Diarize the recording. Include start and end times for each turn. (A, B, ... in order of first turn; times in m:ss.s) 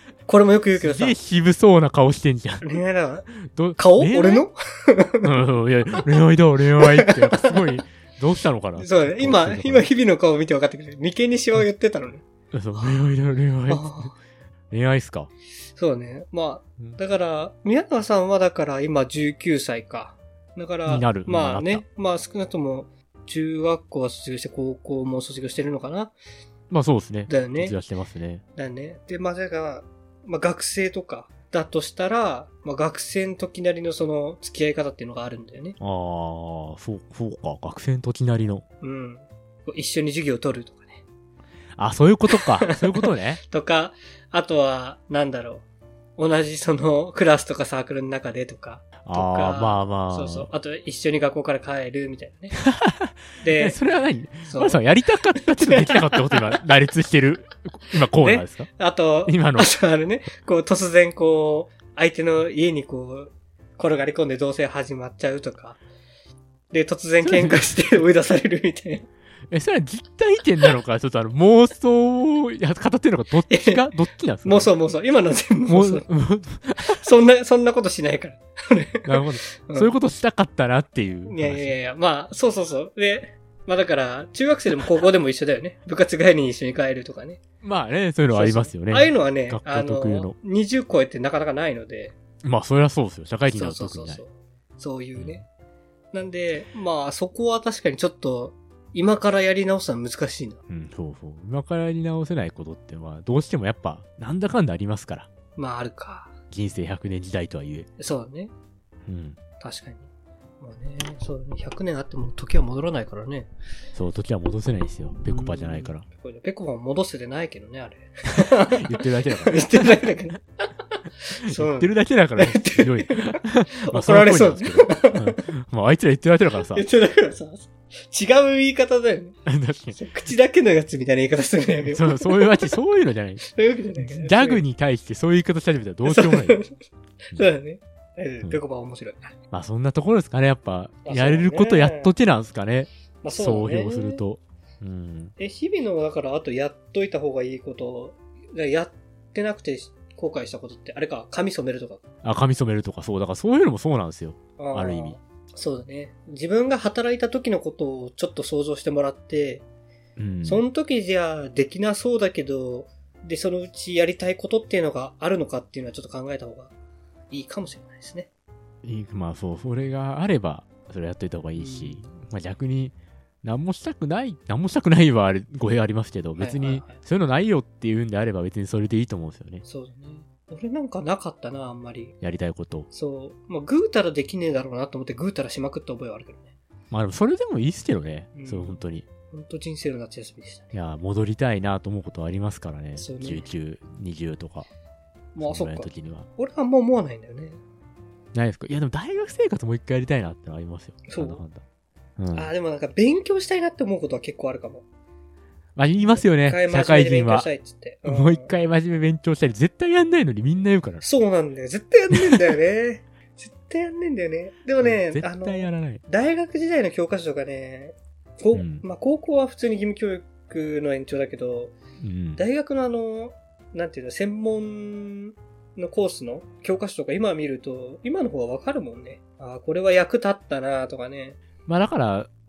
0:00.3-0:01.2 A
0:00.7-0:02.6 B
0:02.6-0:05.4 A
0:03.5-0:04.4 B
0:05.2-0:09.9 B
0:06.8-0:07.8 A
0:08.8-0:12.2 A
0:12.5-0:14.1 B
0:12.7-0:13.0 A
0:13.7-0:14.1 A
0:14.7-0:15.3 B
0:15.7-0:26.1 A
0:20.8-0:21.8 B
0:26.7-0:28.4 B
0:27.3-0:27.8 A
0:28.6-0:35.8 A
0:35.8-0:38.6 B
0:38.8-0:41.0 A
0:41.8-0:43.4 B
0:42.4-0:45.6 A
0:46.2-0:52.6 A
0:49.0-0:50.5 B
0:52.6-0:58.7 B
0:53.4-0:53.8 A
0:54.4-0:54.8 A
0:55.6-0:56.4 A
0:58.2-1:05.8 A
0:59.2-0:59.7 B
1:06.7-1:09.0 A
1:07.2-1:07.8 B
1:09.5-1:14.7 B
1:13.5-1:13.8 A
1:14.4-1:16.1 A
1:15.7-1:17.0 B
1:16.8-1:19.9 A
1:19.0-1:21.7 B
1:21.2-1:27.4 A
1:27.6-1:30.4 B
1:28.3-1:32.1 A
1:32.4-1:34.2 B
1:33.5-1:35.4 A
1:35.2-1:35.4 B
1:36.1-1:40.6 A
1:40.7-1:45.3 B
1:45.6-1:46.3 A
1:46.5-1:47.9 B
1:48.0-1:48.5 A
1:49.1-1:49.4 B
1:49.6-1:50.1 A
1:50.6-1:53.5 A
1:53.9-1:56.0 B
1:55.2-2:00.4 A
1:58.6-2:00.0 B
2:01.3-2:05.4 A
2:01.4-2:06.8 B
2:06.7-2:09.4 A
2:09.4-2:10.0 B
2:09.9-2:12.7 A
2:11.8-2:13.4 B
2:13.4-2:14.6 A
2:14.0-2:16.6 B
2:16.0-2:16.7 A
2:17.3-2:19.3 A
2:19.5-2:25.3 B
2:21.0-2:22.1 A
2:23.2-2:24.2 A
2:25.4-2:32.0 A
2:32.2-2:35.2 B
2:34.6-2:39.6 A
2:40.2-2:40.6 B
2:40.4-2:46.7 A
2:47.3-2:48.3 A
2:48.8-2:59.6 B
2:51.6-2:52.0 A
2:56.4-2:57.0 A
2:59.6-3:02.2 A
3:02.2-3:02.9 B
3:02.9-3:06.5 A
3:06.9-3:09.0 B
3:08.3-3:08.8 A
3:09.3-3:10.7 A
3:10.7-3:14.7 B
3:13.0-3:13.5 A
3:15.3-3:17.6 A
3:15.4-3:16.3 B
3:18.3-3:21.6 B
3:21.1-3:21.4 A
3:22.2-3:22.5 B
3:22.3-3:24.8 A
3:25.8-3:27.5 B
3:26.0-3:28.5 A
3:28.0-3:31.0 B
3:31.0-3:41.7 A
3:34.8-3:36.0 B
3:38.5-3:38.8 B
3:42.0-3:42.4 B
3:42.4-3:51.4 A
3:51.7-3:52.3 B